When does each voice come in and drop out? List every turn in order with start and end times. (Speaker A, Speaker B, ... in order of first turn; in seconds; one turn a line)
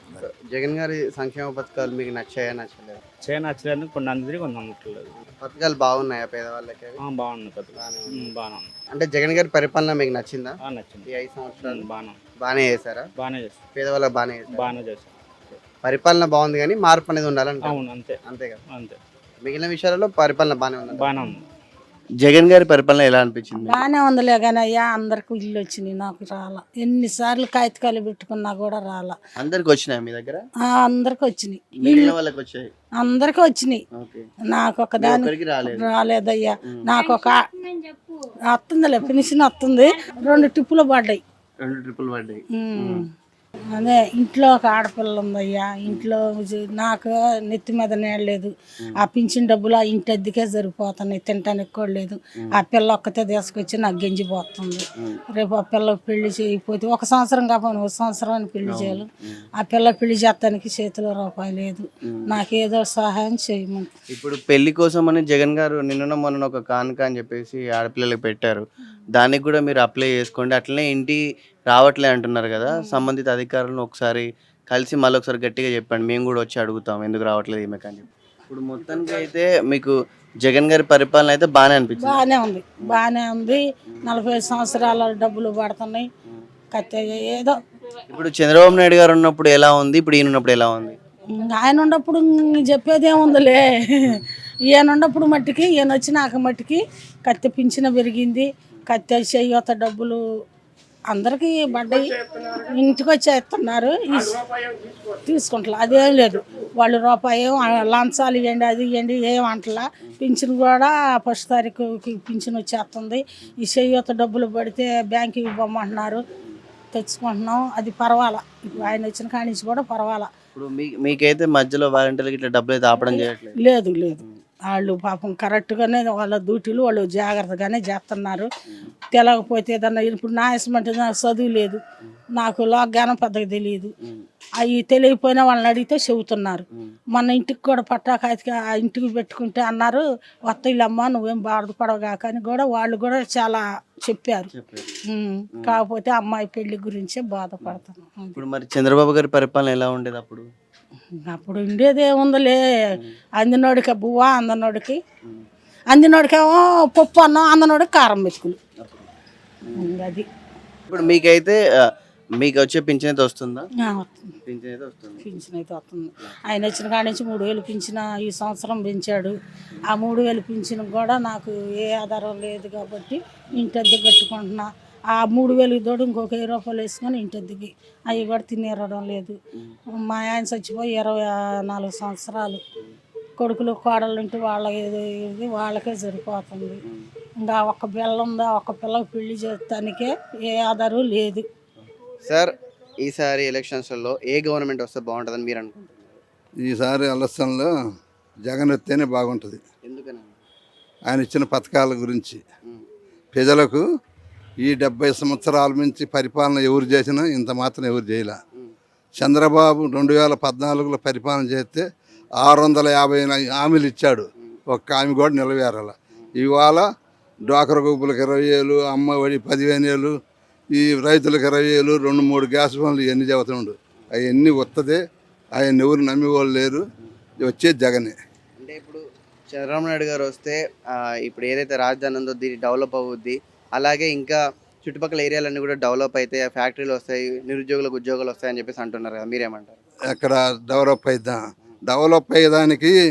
Speaker A: 0.2-3.0
Speaker B: 3.2-5.2
Speaker A: 5.4-7.0
Speaker B: 7.0-8.7
Speaker A: 7.8-8.3
Speaker A: 8.9-10.6
Speaker B: 10.6-11.1
Speaker A: 11.1-11.9
Speaker B: 11.6-12.2
Speaker A: 12.4-13.1
Speaker B: 13.2-13.6
Speaker A: 13.8-14.7
Speaker B: 14.5-15.1
Speaker A: 15.8-18.6
Speaker B: 17.6-19.0
Speaker A: 19.4-21.1
Speaker B: 20.9-21.4
Speaker A: 22.2-23.8
Speaker C: 23.6-29.2
Speaker A: 29.4-30.4
Speaker C: 30.6-32.2
Speaker A: 31.8-32.7
Speaker C: 33.0-33.8
Speaker A: 34.0-34.3
Speaker C: 34.5-37.5
Speaker A: 35.0-35.9
Speaker C: 38.5-41.2
Speaker A: 41.6-43.0
Speaker C: 42.5-43.1
Speaker C: 43.7-59.1
Speaker A: 58.7-59.5
Speaker C: 59.6-63.9
Speaker A: 64.1-82.2
Speaker C: 72.7-73.0
Speaker C: 82.0-86.1
Speaker C: 86.7-87.6
Speaker A: 88.1-91.0
Speaker C: 91.3-100.2
Speaker C: 101.1-104.4
Speaker C: 105.2-116.2
Speaker C: 117.0-120.3
Speaker A: 120.5-123.6
Speaker C: 123.6-128.5
Speaker C: 129.1-131.8
Speaker C: 132.3-133.9
Speaker C: 134.6-144.5
Speaker A: 144.5-144.9
Speaker C: 145.1-148.4
Speaker A: 148.4-150.5
Speaker C: 151.2-152.6
Speaker C: 153.4-155.0
Speaker C: 155.9-158.6
Speaker A: 158.8-159.1
Speaker C: 159.8-160.3
Speaker A: 160.9-163.7
Speaker C: 163.8-164.3
Speaker A: 164.4-165.2
Speaker C: 165.2-179.4
Speaker C: 179.9-182.6
Speaker C: 183.4-186.8
Speaker C: 187.4-191.5
Speaker A: 192.2-196.2
Speaker D: 196.6-197.7
Speaker D: 198.4-199.6
Speaker A: 199.8-200.4
Speaker D: 201.1-202.4
Speaker D: 203.3-203.8
Speaker D: 204.6-208.4
Speaker D: 209.2-211.9
Speaker D: 212.4-216.9
Speaker D: 217.5-220.2
Speaker D: 220.7-225.0
Speaker D: 225.6-226.8
Speaker D: 227.4-228.2
Speaker A: 228.6-239.8
Speaker D: 240.1-243.0